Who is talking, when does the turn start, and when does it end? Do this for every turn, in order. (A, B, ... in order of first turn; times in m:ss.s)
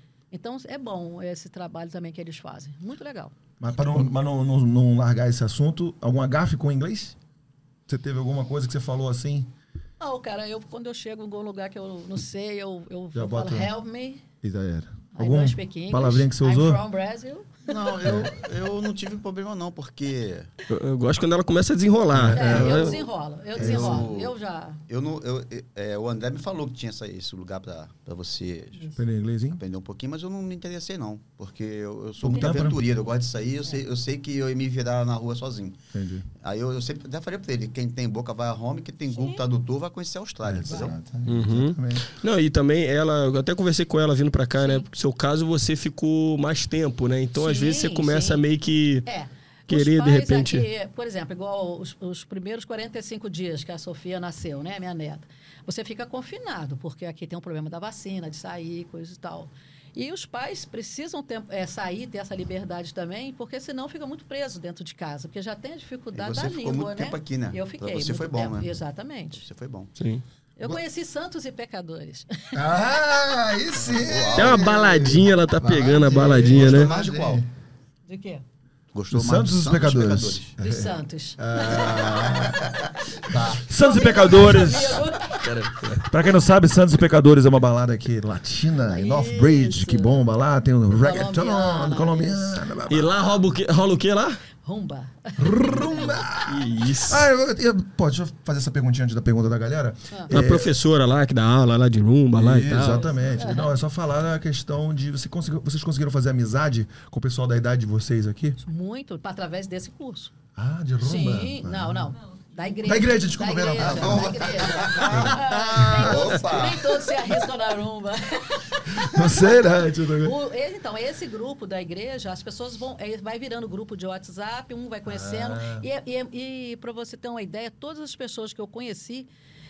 0:00.3-0:03.3 A
0:03.6-0:07.2 B
0:07.9-0:09.5 B
0:10.0-0:14.2 A
0:13.1-0:13.7 B
0:14.4-0:16.8 B
0:15.2-0:17.5 A
0:17.7-0:20.5 C
0:18.0-0:18.3 B
0:20.7-0:23.0 D
0:22.1-0:23.0 B
0:22.3-0:24.8 A
0:23.6-0:24.1 B
0:23.6-0:24.4 C
0:24.9-0:29.0 C
0:29.0-0:29.6 B
0:29.5-0:35.8 C
0:32.2-0:32.8 B
0:35.9-0:36.3 B
0:36.4-0:41.0 C
0:39.1-0:39.4 A
0:40.4-0:42.1 B
0:41.3-0:49.1 D
0:44.6-0:44.9 A
0:47.4-0:48.4 A
0:49.0-1:09.5 A
0:49.7-0:50.7 D
1:06.1-1:08.8 C
1:09.3-1:09.9 C
1:10.0-1:10.2 D
1:10.6-1:12.6 A
1:12.5-1:17.5 B
1:13.8-1:15.2 C
1:14.4-1:16.9 D
1:15.8-1:17.4 C
1:18.1-1:18.4 A
1:18.9-1:20.6 C
1:19.1-1:22.7 B
1:20.6-1:22.5 A
1:21.7-1:23.7 C
1:23.6-1:25.2 B
1:23.7-1:25.5 A
1:25.4-1:26.1 D
1:26.0-1:33.4 B
1:28.8-1:30.2 A
1:31.0-1:32.6 A
1:32.9-1:34.4 D
1:34.6-1:36.1 A
1:35.4-1:40.8 B
1:36.4-1:37.3 D
1:40.3-1:43.1 D
1:42.4-1:48.6 B
1:43.4-1:43.7 A
1:48.6-1:50.3 A
1:50.6-1:52.1 B
1:51.0-2:09.3 A
1:52.8-1:56.3 B
1:53.8-1:57.1 C
1:58.9-2:00.4 B
2:05.1-2:05.9 B